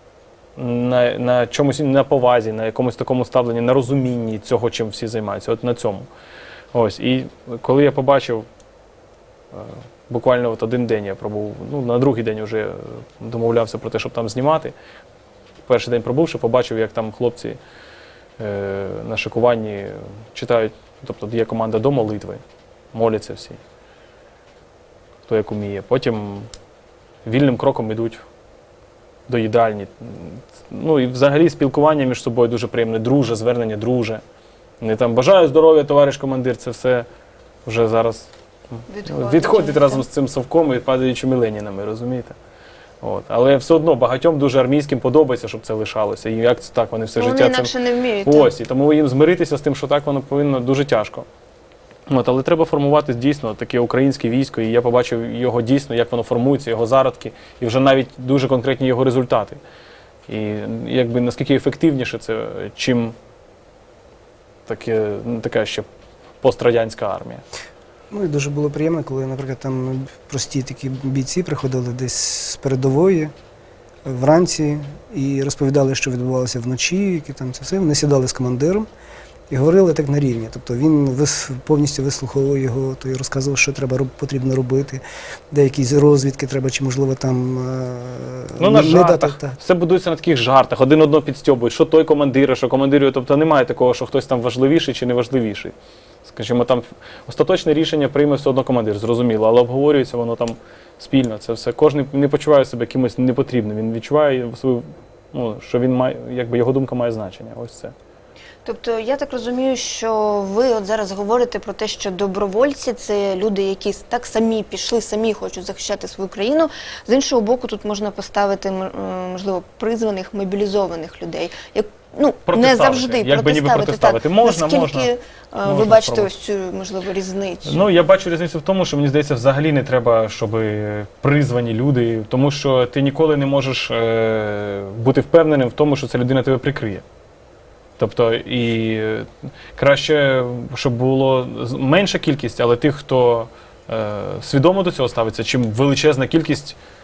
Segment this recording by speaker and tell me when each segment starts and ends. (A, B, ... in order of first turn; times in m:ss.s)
0:00.6-0:06.1 A
0:06.7-0:08.5 A
0:09.5-0:14.7 A
0:15.7-0:17.6 A
0:18.4-0:22.4 A
0:22.9-0:23.6 A
0:25.3-0:26.5 A
0:27.2-0:28.2 A
0:29.3-0:34.2 A
0:34.8-0:37.1 A
0:37.7-0:42.4 A
0:38.9-0:40.0 B
0:43.0-0:47.7 A
0:47.2-0:48.5 B
0:48.2-0:51.3 A
0:52.1-0:59.6 A
1:00.3-1:03.1 A
1:04.7-1:05.9 A
1:06.4-1:07.4 A
1:08.1-1:13.3 C
1:14.0-1:18.9 C
1:19.5-1:29.6 C
1:28.6-1:35.7 A
1:36.2-1:47.9 A
1:48.6-2:08.0 B
2:02.5-2:05.1 A
2:05.6-2:06.3 A
2:07.6-2:17.0 A
2:18.0-2:26.8 A